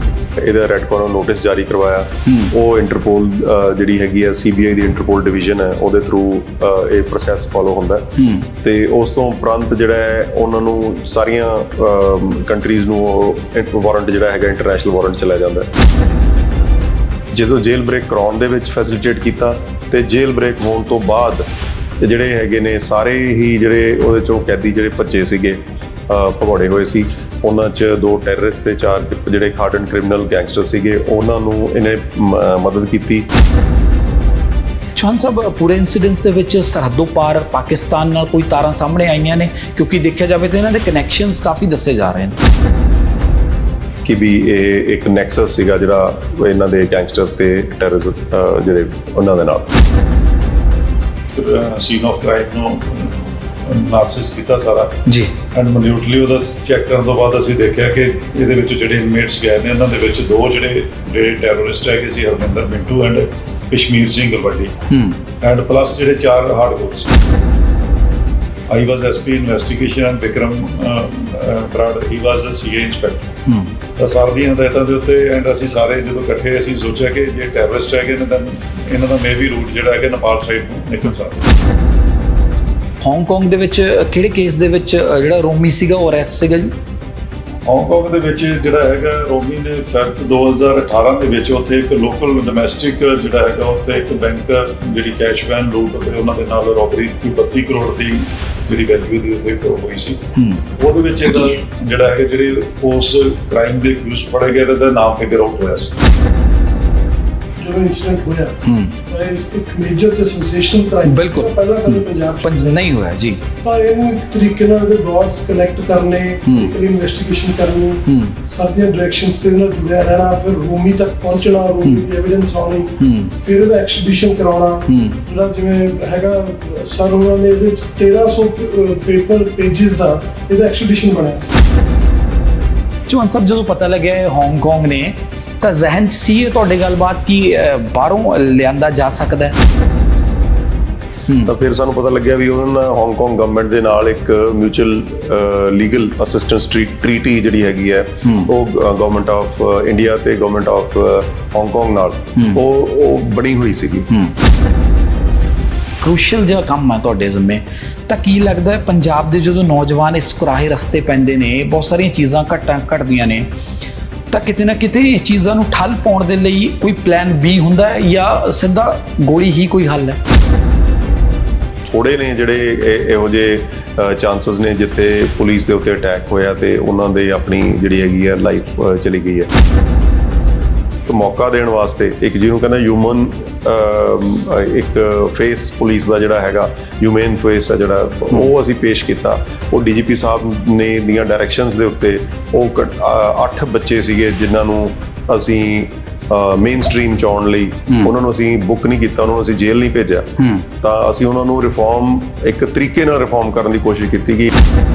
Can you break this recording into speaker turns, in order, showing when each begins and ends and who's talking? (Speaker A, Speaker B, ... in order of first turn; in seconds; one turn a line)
Speaker A: 0.4-15.7
Speaker B: 2.2-2.5
Speaker B: 8.2-8.5
Speaker A: 17.3-21.5
Speaker A: 22.0-33.3
Speaker B: 35.0-42.4
Speaker A: 44.0-49.7
Speaker C: 51.3-55.0
Speaker B: 55.1-55.3
Speaker C: 55.5-64.7
Speaker B: 64.9-65.2
Speaker C: 65.4-67.2
Speaker C: 68.7-73.3
Speaker B: 73.5-73.8
Speaker C: 74.0-81.5
Speaker B: 83.0-86.7
Speaker C: 87.7-100.2
Speaker B: 100.3-100.7
Speaker C: 100.8-106.0
Speaker D: 107.6-108.6
Speaker B: 108.6-109.0
Speaker D: 109.1-112.8
Speaker B: 111.0-113.4
Speaker D: 113.6-131.6
Speaker B: 116.5-116.7
Speaker B: 118.1-118.4
Speaker B: 123.0-123.3
Speaker B: 124.9-125.2
Speaker B: 133.1-139.6
Speaker A: 141.5-154.1
Speaker B: 148.2-148.5
Speaker B: 154.1-154.3
Speaker B: 156.0-163.5
Speaker B: 164.3-170.2
Speaker A: 171.9-179.5
Speaker A: 181.1-204.5
Speaker B: 200.4-200.7